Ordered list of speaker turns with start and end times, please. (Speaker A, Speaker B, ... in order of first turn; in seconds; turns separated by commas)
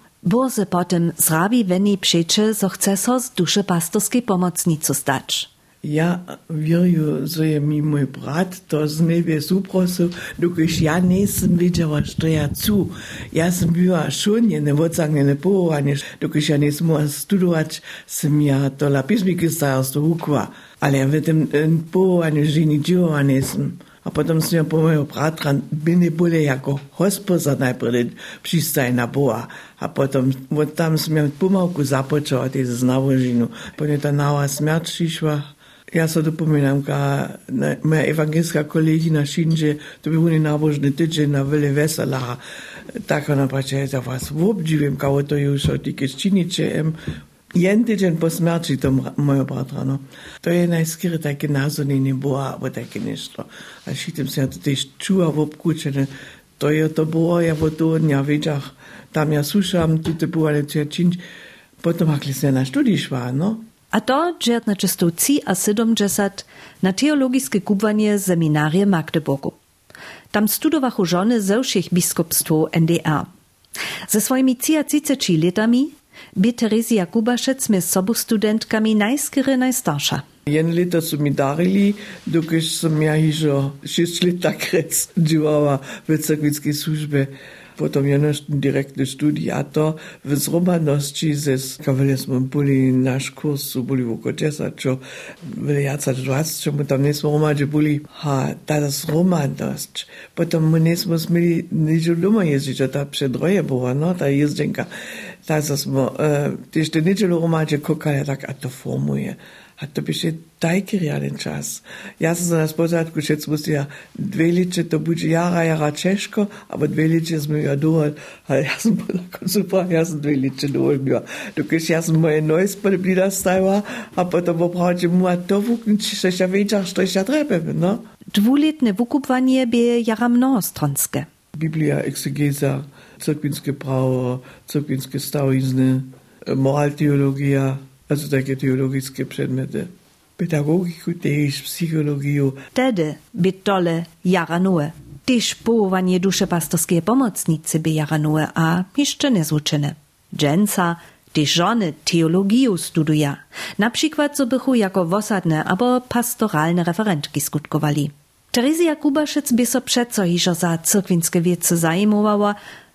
Speaker A: 0.2-5.5, Speaker B: 5.8-42.4, Speaker B: 43.0-47.0, Speaker B: 47.5-61.2, Speaker B: 61.8-63.6, Speaker A: 63.9-69.5, Speaker A: 70.3-73.3, Speaker A: 74.1-80.2, Speaker B: 80.5-104.9, Speaker B: 105.4-128.0, Speaker A: 128.3-131.3, Speaker B: 131.5-142.6, Speaker A: 142.7-162.6